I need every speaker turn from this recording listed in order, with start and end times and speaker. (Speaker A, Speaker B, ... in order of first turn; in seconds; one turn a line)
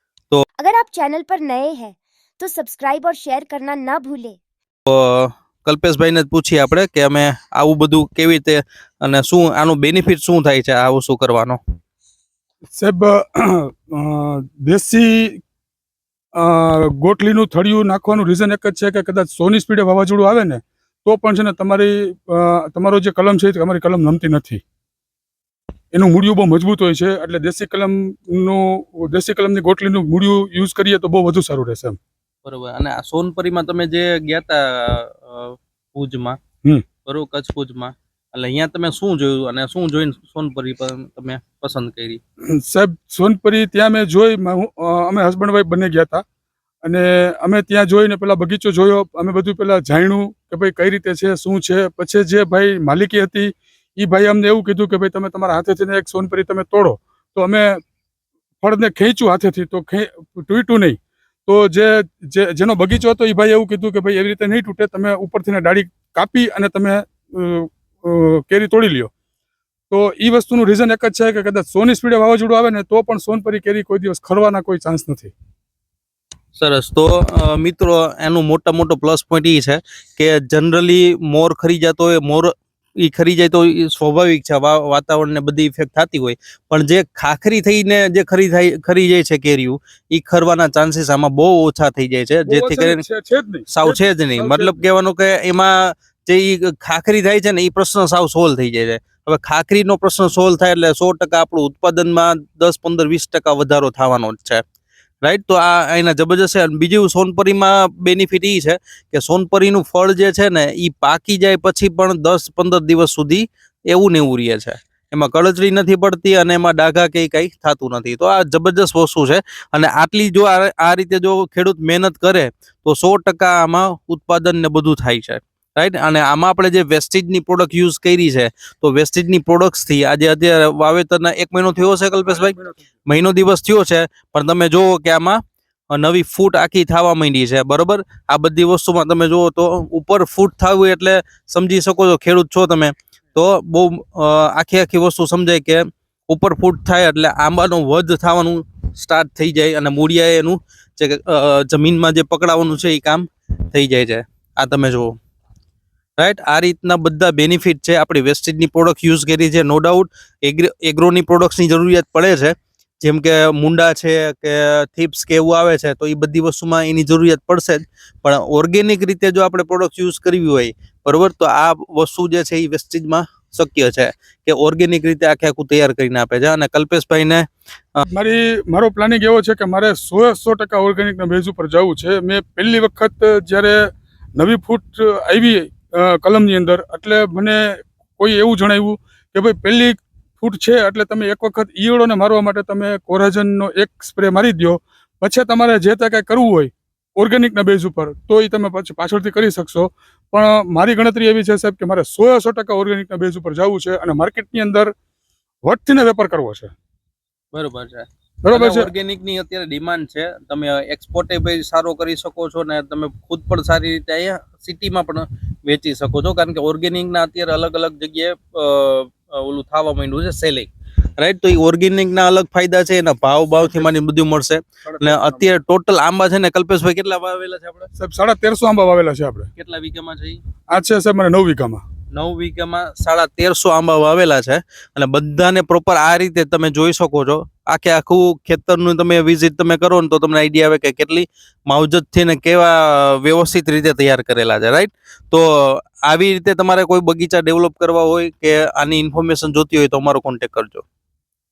Speaker A: 0.6-4.4
Speaker B: 4.9-11.6
Speaker C: 12.7-15.4
Speaker C: 16.3-24.6
Speaker C: 25.9-32.0
Speaker B: 32.5-36.4
Speaker B: 37.0-42.2
Speaker C: 42.5-46.2
Speaker C: 46.8-57.8
Speaker C: 58.6-69.1
Speaker C: 69.9-75.3
Speaker B: 76.6-93.0
Speaker C: 92.5-94.8
Speaker B: 93.7-104.6
Speaker B: 105.2-135.4
Speaker B: 135.9-155.2
Speaker B: 156.2-178.0
Speaker C: 178.1-204.9
Speaker C: 205.6-206.7
Speaker B: 207.5-227.9
Speaker C: 208.4-208.9
Speaker C: 224.9-225.5
Speaker C: 228.0-229.5
Speaker B: 229.6-230.4
Speaker C: 230.7-231.8
Speaker B: 232.1-250.8